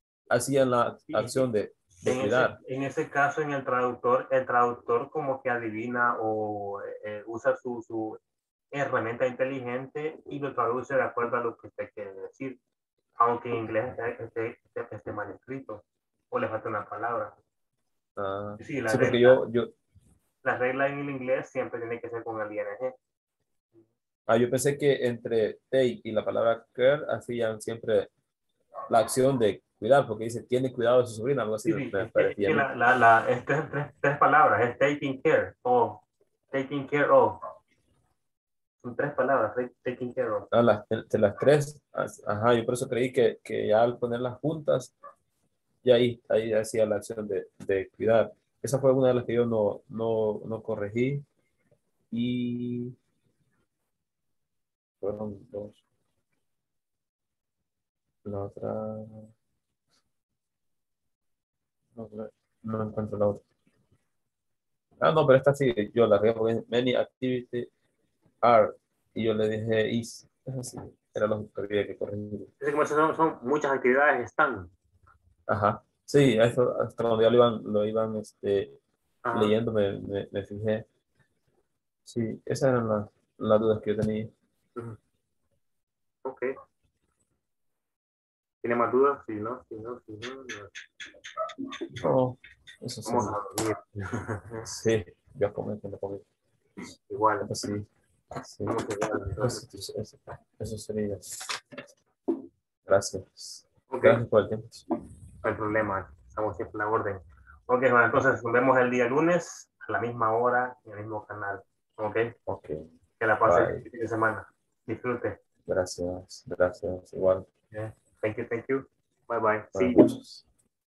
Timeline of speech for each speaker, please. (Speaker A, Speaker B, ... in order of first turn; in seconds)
Speaker A: 0.3-2.6, 18.1-19.7, 24.3-28.1, 28.9-32.6, 40.5-44.9, 45.8-51.2, 52.1-53.0, 55.0-55.8, 58.2-59.3, 61.9-63.4, 65.0-67.7, 68.4-72.5, 75.5-78.8, 79.3-80.8, 82.0-84.3, 92.0-93.4, 94.6-96.2, 97.4-98.7, 99.4-101.6, 102.8-104.8, 112.5-112.9, 113.5-113.8, 115.6-117.5, 119.7-120.4
Speaker B: 1.1-8.2, 8.7-12.6, 13.2-17.4, 18.6-19.4, 20.4-22.9, 31.6-37.4, 38.8-40.5, 72.6-74.7, 79.2-79.5, 86.2-86.5, 88.6-90.7, 93.0-94.6, 97.1-97.5, 98.7-99.6, 103.9-104.2, 105.4-112.3, 113.2-115.4, 117.7-120.1